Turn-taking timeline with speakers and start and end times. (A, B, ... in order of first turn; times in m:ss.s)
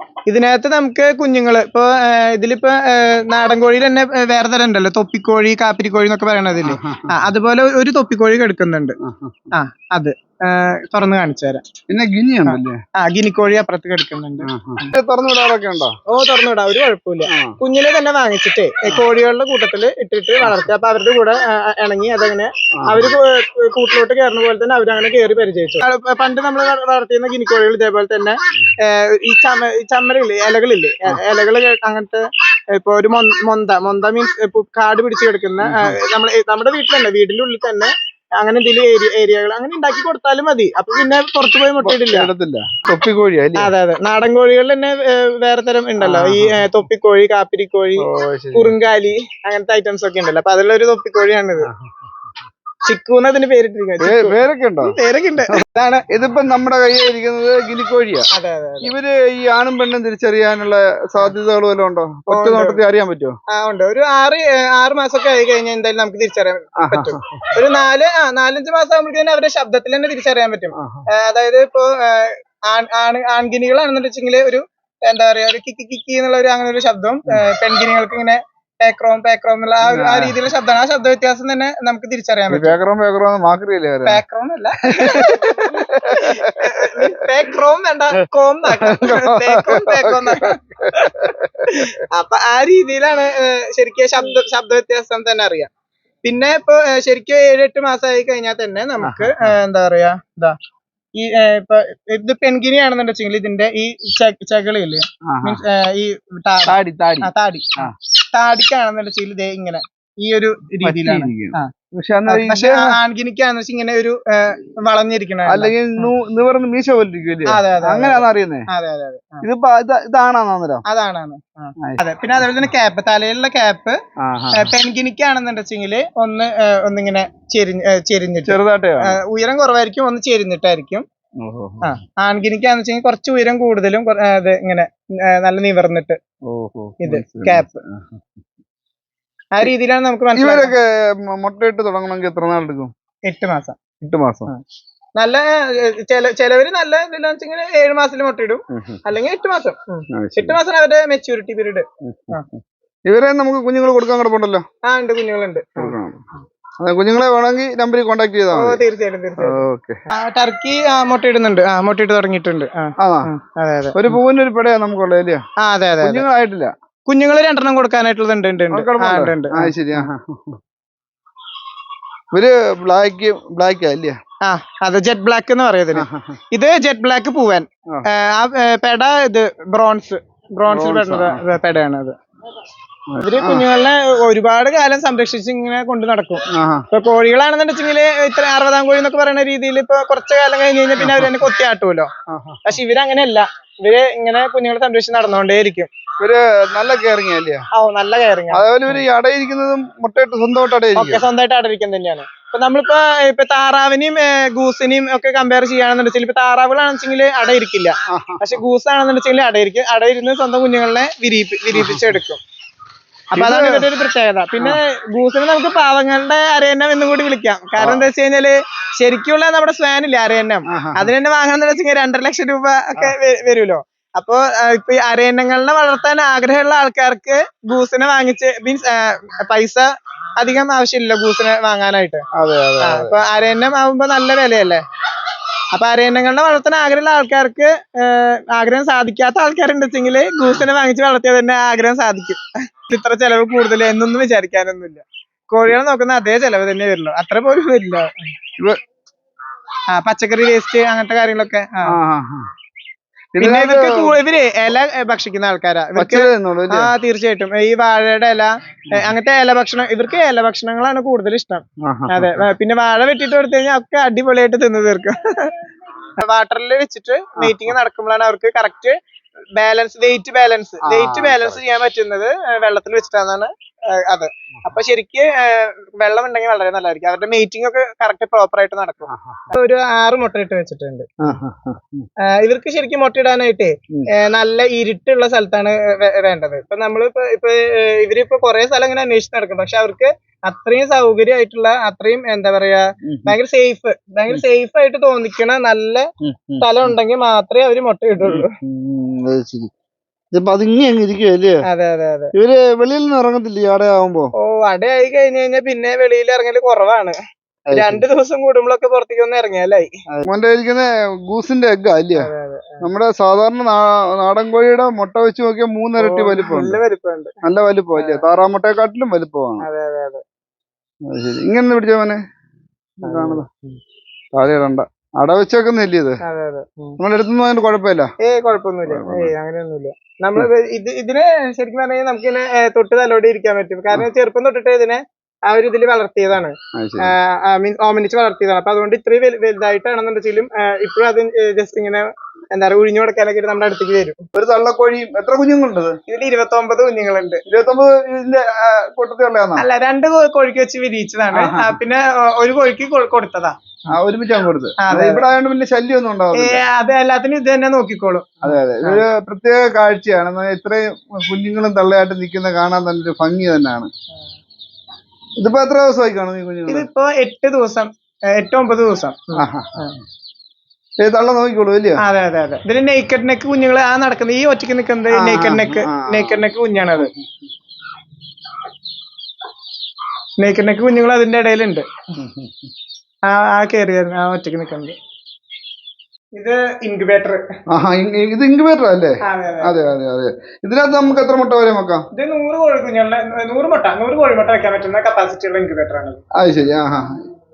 0:00.3-0:09.0 A
0:06.7-0:07.2 B
0:09.0-0:09.5 B
0:09.5-0:11.6 A
0:11.9-0:12.8 B
0:12.5-0:14.9 A
0:14.5-0:16.0 B
0:16.1-0:42.3 A
0:17.3-0:17.6 B
0:20.4-0:20.7 B
0:22.8-0:23.2 B
0:35.6-0:36.0 B
0:41.8-0:43.7 B
0:43.6-0:51.7 A
0:46.0-0:46.7 B
0:48.0-0:48.8 B
0:52.8-0:56.0 A
0:54.0-0:55.0 B
0:55.5-0:58.3 B
0:58.3-0:58.9 A
0:58.8-1:03.4 B
1:02.3-1:02.8 A
1:03.5-1:22.8 A
1:06.8-1:07.6 B
1:10.8-1:11.0 B
1:19.8-1:20.4 B
1:22.5-1:24.2 B
1:24.0-1:35.7 A
1:24.9-1:27.1 B
1:28.8-1:31.9 B
1:36.2-1:40.6 A
1:39.0-1:39.6 B
1:41.2-1:51.7 A
1:45.3-1:45.6 B
1:46.7-1:48.0 B
1:50.8-1:53.0 B
1:52.3-1:56.1 A
1:55.5-1:58.7 B
1:57.5-1:59.4 A
1:59.4-2:00.8 B
2:00.9-2:04.0 A
2:01.8-2:02.4 B
2:04.2-2:04.7 B
2:04.5-2:11.0 A
2:08.4-2:09.2 B
2:11.4-2:11.9 B
2:11.8-2:16.2 A
2:16.5-2:18.4 B
2:17.0-2:17.8 A
2:19.6-2:20.7 A
2:20.4-2:22.9 B
2:23.3-2:23.8 A
2:24.0-2:24.5 B
2:25.2-2:32.5 A
2:28.7-2:29.0 B
2:30.1-2:30.6 B
2:32.0-2:32.5 B
2:33.1-2:34.6 B
2:34.8-2:36.0 A
2:35.8-2:36.2 B
2:36.8-2:38.8 B
2:38.5-2:44.2 A
2:39.4-2:40.0 B
2:43.0-2:43.3 B
2:44.0-2:45.4 B
2:45.6-2:46.2 A
2:46.0-2:46.7 B
2:47.1-2:50.1 A
2:48.7-2:50.6 B
2:52.3-2:54.2 B
2:54.4-3:02.2 A
2:55.9-2:56.4 B
3:00.7-3:01.4 B
3:03.1-3:03.7 B
3:03.2-3:12.1 A
3:06.5-3:06.9 B
3:11.0-3:11.5 B
3:12.3-3:12.8 B
3:12.7-3:15.9 A
3:16.2-3:17.6 B
3:17.7-3:19.0 A
3:18.5-3:21.2 B
3:21.0-3:32.4 A
3:28.1-3:28.6 B
3:31.7-3:32.2 B
3:33.3-3:52.2 A
3:33.4-3:33.9 B
3:37.8-3:38.1 B
3:40.7-3:41.1 B
3:52.4-3:53.2 B
3:52.8-3:54.8 A
3:55.7-4:08.3 A
4:09.9-4:12.0 A
4:11.9-4:12.5 B
4:13.3-4:14.2 B
4:13.4-4:25.6 A
4:16.0-4:16.9 B
4:21.8-4:22.5 B
4:26.2-4:29.0 A
4:27.4-4:27.8 B
4:29.6-4:41.1 A
4:30.8-4:31.6 B
4:39.1-4:39.5 B
4:41.2-4:42.1 B
4:42.3-4:56.1 A
4:53.0-4:53.4 B
4:56.2-4:56.9 B
4:56.6-4:58.6 A
4:58.2-4:59.7 B
5:00.3-5:01.6 B
5:01.7-5:02.3 A
5:02.4-5:04.3 B
5:04.4-5:07.2 A
5:07.7-5:08.0 B
5:07.7-5:10.0 A
5:10.2-5:12.3 B
5:12.2-5:12.8 A
5:12.8-5:16.8 B
5:16.0-5:17.3 A
5:17.4-5:19.7 B
5:18.0-5:18.2 A
5:19.6-5:20.2 A
5:21.1-5:22.2 B
5:23.0-5:23.4 A
5:23.0-5:23.5 B
5:24.4-5:26.2 B
5:26.2-5:27.0 A
5:27.0-5:28.1 B
5:28.2-5:44.2 A
5:28.9-5:29.3 B
5:36.8-5:37.1 B
5:44.3-5:46.0 B
5:46.1-5:47.4 A
5:47.5-5:49.6 B
5:49.6-5:54.0 A
5:51.3-5:51.8 B
5:53.9-5:56.6 B
5:54.8-5:55.3 A
5:56.3-5:59.1 A
5:58.4-6:03.9 B
6:05.4-6:06.9 B
6:06.7-6:10.0 A
6:09.4-6:09.7 B
6:11.0-6:12.0 B
6:12.0-6:17.1 A
6:15.1-6:16.5 B
6:17.0-6:17.2 B
6:20.4-6:21.9 A
6:22.2-6:22.6 B
6:23.3-6:25.0 A
6:26.4-6:27.4 A
6:27.7-6:32.0 B
6:29.2-6:29.8 A
6:32.1-6:36.2 A
6:36.4-6:37.2 B